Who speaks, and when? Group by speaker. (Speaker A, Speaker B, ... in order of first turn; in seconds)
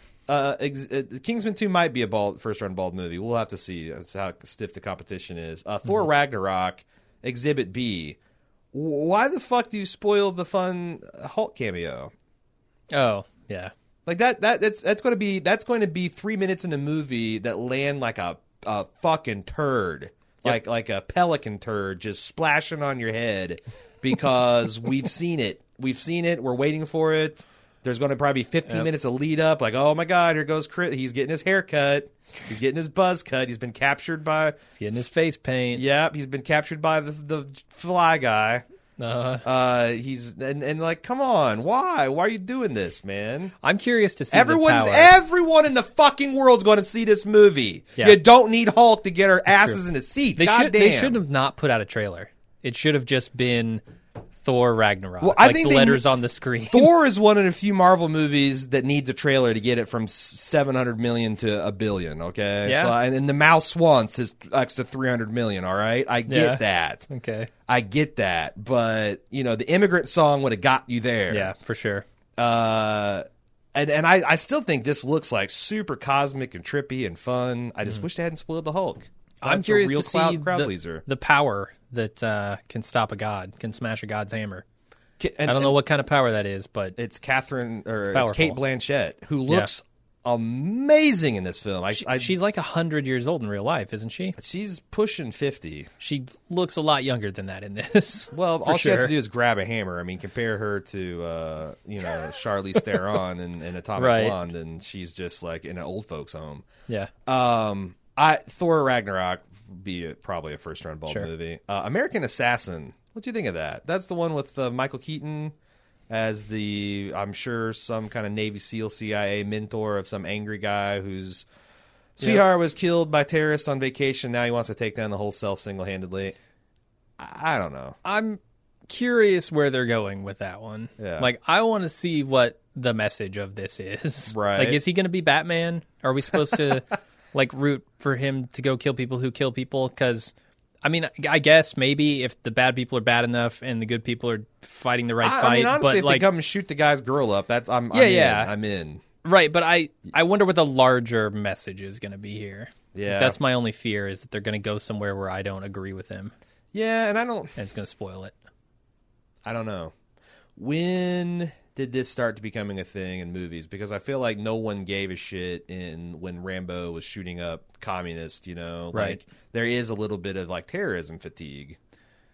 Speaker A: 0.3-8.2, 8.7-12.1, 14.1-34.5, 35.8-38.6, 39.4-43.5, 44.3-51.2, 55.2-56.2, 56.7-67.1, 67.7-71.5, 72.4-81.0, 85.2-85.8, 87.0-92.3, 94.4-95.9, 98.3-106.7, 107.3-115.5, 116.1-121.5, 122.2-126.4, 127.2-128.0, 131.0-131.3, 134.3-134.8, 145.2-149.0, 152.9-153.4, 156.7-157.6, 159.4-159.9, 160.6-171.8
Speaker B: 12.9-13.7, 34.8-35.8, 39.0-39.5, 43.6-45.1, 49.5-49.8, 50.4-53.8, 54.4-56.9, 62.6-63.0, 66.3-67.5, 71.3-72.0, 79.4-84.7, 85.5-87.0, 88.1-88.6, 91.9-94.4, 96.0-99.2, 104.0-104.4, 128.0-146.3, 147.9-148.5, 149.2-156.3, 157.6-158.4, 168.9-169.2